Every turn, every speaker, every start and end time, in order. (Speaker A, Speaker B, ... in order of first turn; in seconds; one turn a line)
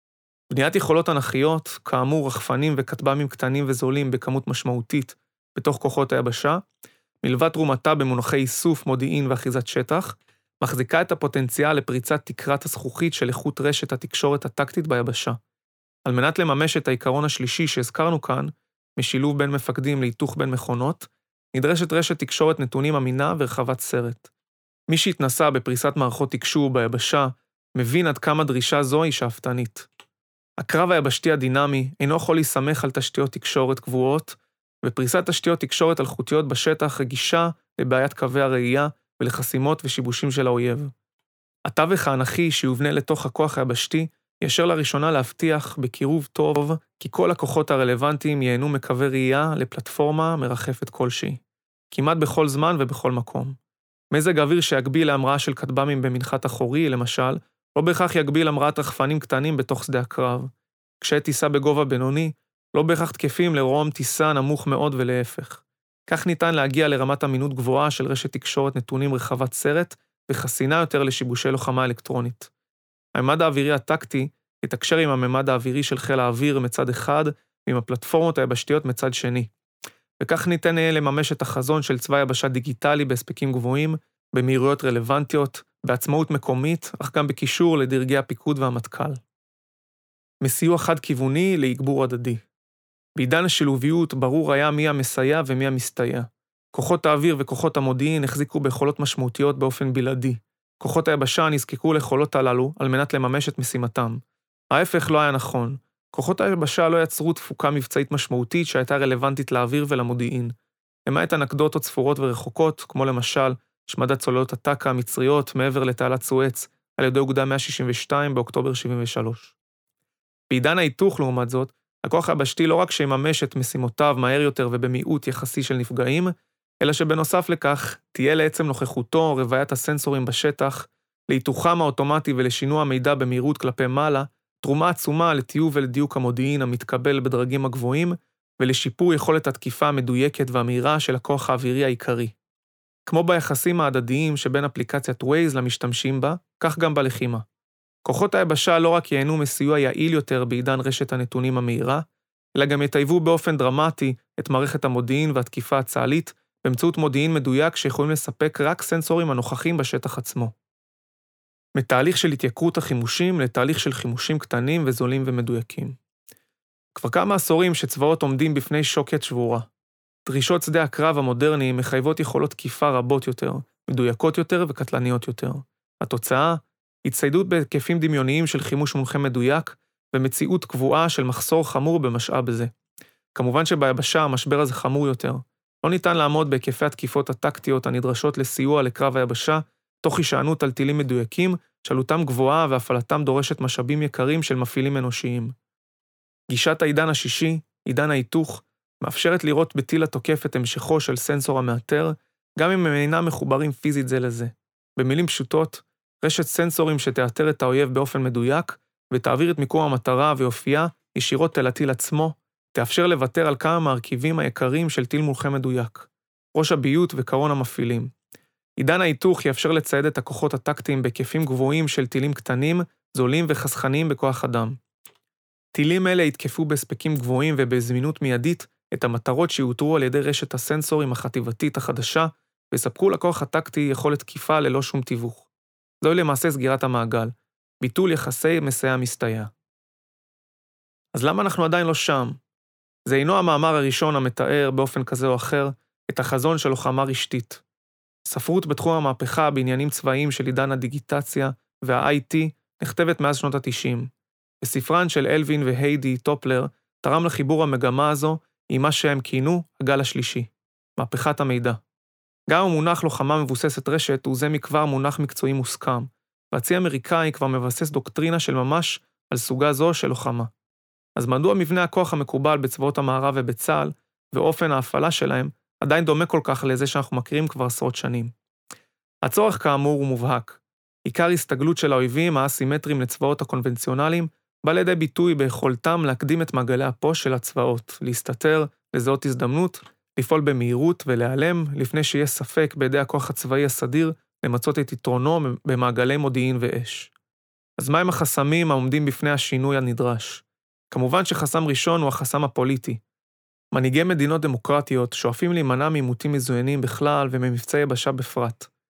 Speaker A: 0.5-6.6
Speaker A: 7.2-15.4
Speaker A: 16.1-24.3
Speaker A: 24.9-29.9
Speaker A: 30.6-40.9
Speaker A: 41.7-51.4
Speaker A: 51.9-53.6
Speaker A: 54.1-60.5
Speaker A: 61.0-72.5
Speaker A: 73.1-79.5
Speaker A: 80.2-89.2
Speaker A: 90.4-92.4
Speaker A: 93.2-110.5
Speaker A: 111.0-119.5
Speaker A: 120.5-142.3
Speaker A: 143.1-147.4
Speaker A: 148.1-152.0
Speaker A: 152.6-160.5
Speaker A: 161.8-166.0
Speaker A: 166.9-169.7
Speaker A: 170.3-182.7
Speaker A: 183.3-195.5
Speaker A: 196.5-218.1
Speaker A: 218.8-224.8
Speaker A: 225.7-235.5
Speaker A: 236.0-239.5
Speaker A: 241.1-242.4
Speaker A: 243.1-247.6
Speaker A: 248.3-254.1
Speaker A: 254.6-261.8
Speaker A: 262.5-270.5
Speaker A: 271.2-278.3
Speaker A: 279.2-297.1
Speaker A: 297.8-303.0
Speaker A: 303.7-308.7